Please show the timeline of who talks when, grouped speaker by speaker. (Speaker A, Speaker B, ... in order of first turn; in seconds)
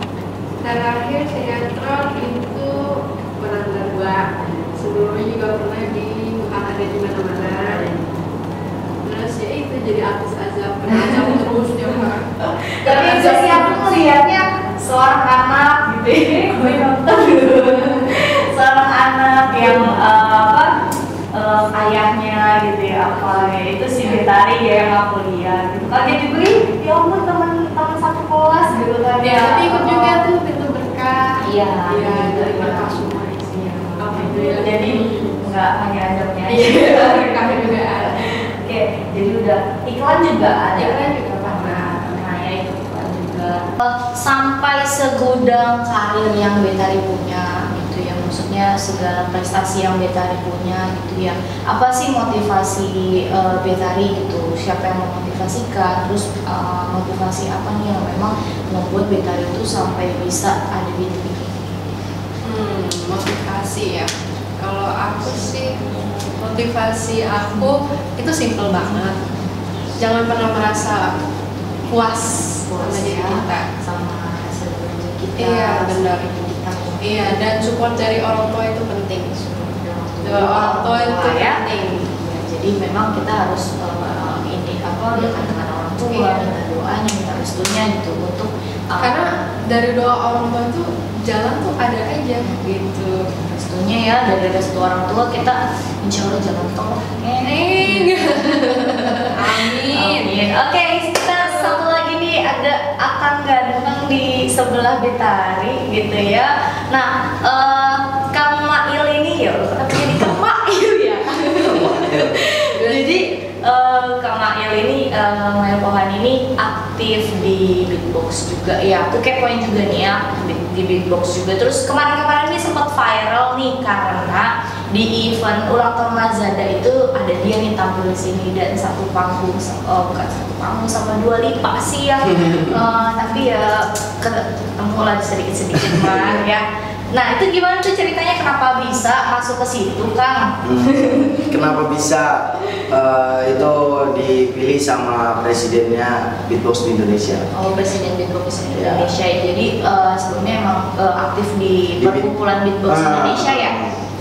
Speaker A: 0.6-7.8, 9.0-14.1, 19.6-19.9, 29.2-35.4, 36.5-38.4, 40.8-42.2, 62.4-69.2, 70.0-71.2, 71.9-73.7, 75.4-76.3, 77.0-79.5, 80.2-82.0, 85.1-85.5, 86.1-86.5, 89.0-93.2, 97.5-100.5, 101.3-101.8, 112.7-113.2
Speaker B: 4.3-4.8, 7.3-9.0, 10.9-20.7, 21.3-30.3, 31.4-61.6, 68.8-69.5, 72.7-77.5, 79.5-89.3, 93.3-141.7, 147.5-153.8
Speaker C: 111.5-112.4, 135.9-136.5, 140.6-147.5, 148.7-149.1, 152.0-152.3, 152.9-154.0